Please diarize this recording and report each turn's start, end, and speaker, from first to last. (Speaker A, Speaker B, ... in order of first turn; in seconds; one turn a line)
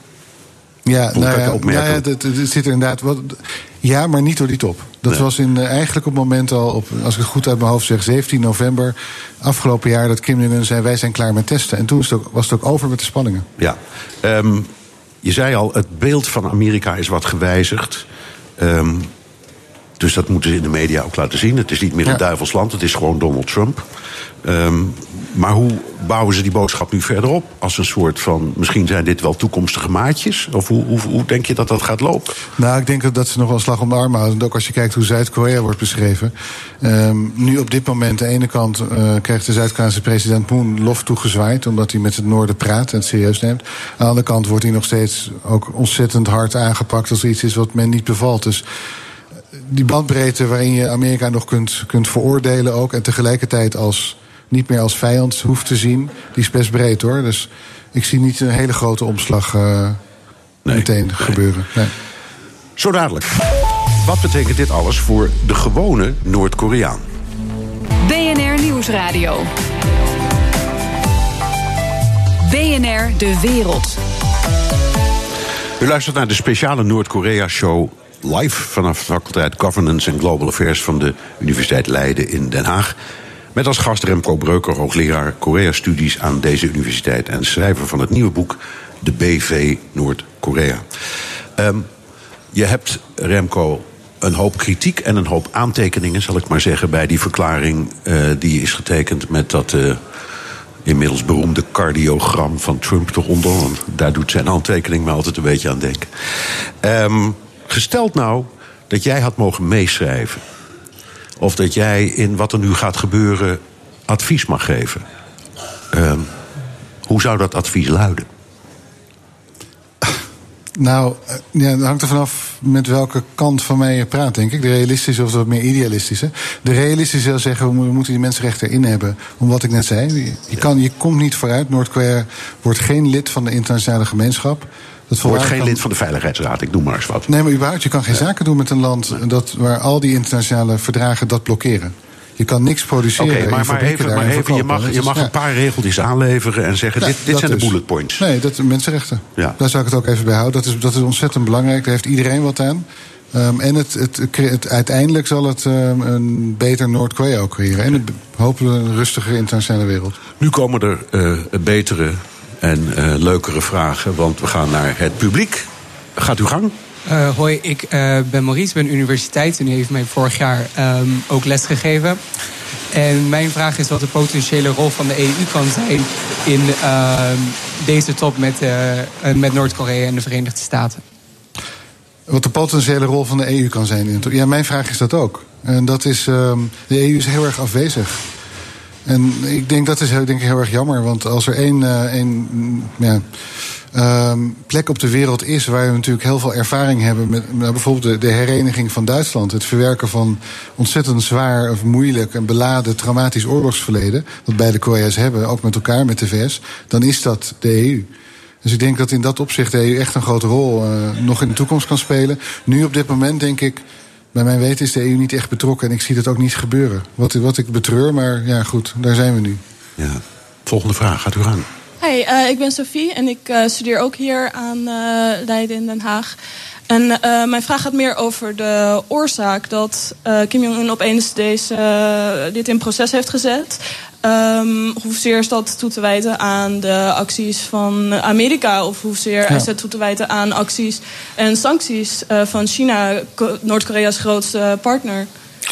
Speaker A: 0.8-13.5
Speaker B: 1.1-2.0
Speaker B: 13.6-14.7
Speaker B: 15.2-18.1
Speaker B: 18.6-19.1
Speaker B: 20.0-23.8
Speaker B: 24.4-32.3
Speaker A: 32.6-48.6
Speaker A: 49.6-60.0
Speaker B: 60.6-61.3
Speaker A: 60.7-61.9
Speaker B: 62.8-67.0
Speaker C: 68.0-69.5
Speaker C: 72.4-74.0
Speaker B: 75.8-82.9
Speaker B: 83.5-90.8
Speaker B: 91.6-91.9
Speaker B: 92.5-100.0
Speaker B: 100.8-106.1
Speaker B: 106.8-110.4
Speaker B: 111.4-115.0
Speaker B: 115.9-116.3
Speaker B: 117.0-118.2
Speaker A: 120.8-135.8
Speaker B: 135.2-137.3
Speaker A: 137.3-145.3
Speaker B: 143.2-148.2
Speaker A: 147.0-160.2
Speaker B: 160.4-166.7
Speaker D: 167.1-172.2
Speaker D: 172.9-181.0
Speaker A: 182.3-188.2
Speaker A: 189.1-193.2
Speaker A: 193.9-208.1
Speaker A: 208.6-213.8
Speaker A: 214.3-219.6
Speaker B: 220.0-221.7
Speaker E: 222.0-226.3
Speaker E: 226.9-245.3